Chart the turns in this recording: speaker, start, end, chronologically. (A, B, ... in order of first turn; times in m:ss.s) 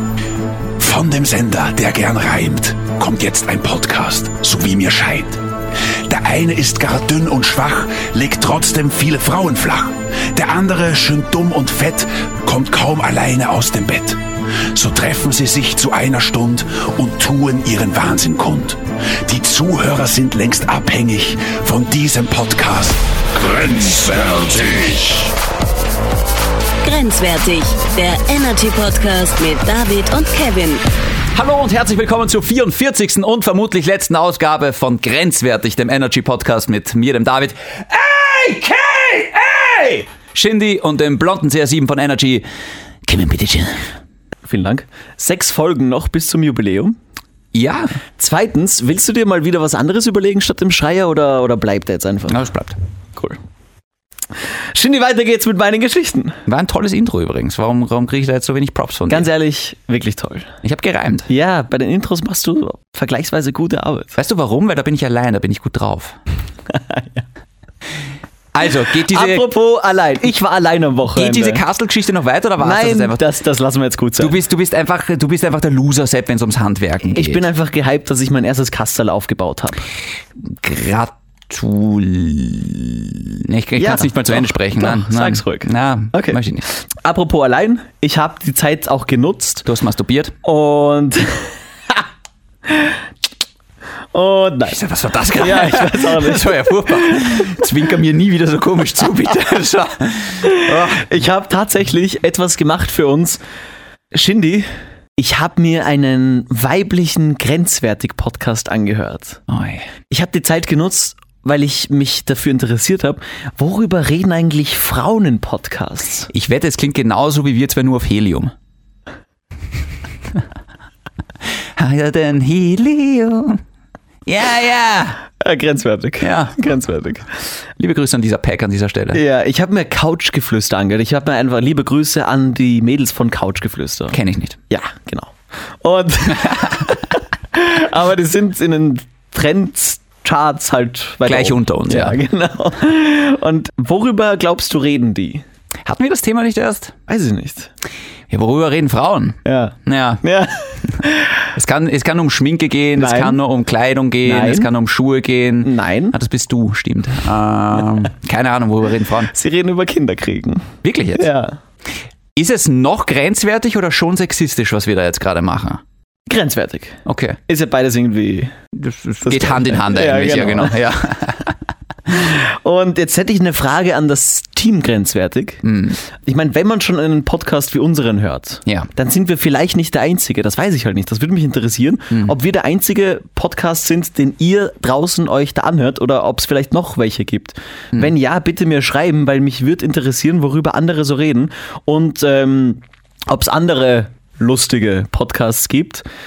0:00.8-0:05.4 A
0:06.1-0:14.2 A
0:14.7-0:25.3 A
0:26.8-0:30.8 B
0:31.3-0:42.4 C
0:43.0-0:43.9 C
0:44.4-0:47.0 D
0:47.5-0:48.0 C
0:48.2-0:52.4 D
0:52.3-0:52.8 C
0:54.7-0:56.4 D
0:56.5-0:59.3 C
0:59.1-1:00.5 D
1:00.6-1:01.3 C
1:01.3-1:04.1 D
1:04.2-1:06.2 C
1:06.7-1:07.2 D
1:08.5-1:09.5 C
1:09.0-1:11.6 D
1:11.1-1:13.2 C
1:12.6-1:14.4 D
1:14.2-1:17.4 C
1:17.1-1:19.8 D
1:20.4-1:26.7 C
1:23.8-1:29.7 D
1:29.7-1:30.4 C
1:30.4-1:32.0 D
1:32.7-1:33.0 D
1:34.1-1:34.8 D
1:34.7-1:41.0 C
1:35.4-1:37.2 D
1:40.4-1:43.4 D
1:44.1-1:49.4 D
1:49.5-1:49.9 C
1:50.1-1:56.3 D
1:56.3-1:58.5 C
2:01.8-2:03.6 C
2:04.3-2:05.2 C
2:05.4-2:07.3 D
2:06.2-2:06.6 C
2:07.8-2:09.2 C
2:09.1-2:14.2 D
2:14.1-2:14.6 C
2:14.7-2:25.4 D
2:16.4-2:16.7 C
2:21.2-2:22.2 C
2:25.8-2:26.9 C
2:27.1-2:27.7 D
2:28.3-2:30.2 C
2:29.4-2:31.4 D
2:31.5-2:39.3 C
2:33.0-2:33.4 D
2:34.2-2:34.7 D
2:35.6-2:36.2 D
2:39.3-2:41.6 D
2:40.8-2:41.3 C
2:42.4-2:45.8 C
2:46.3-2:48.6 D
2:47.1-2:47.4 C
2:48.7-2:51.6 C
2:49.2-2:50.8 D
2:52.1-3:16.0 D
2:55.6-2:56.0 C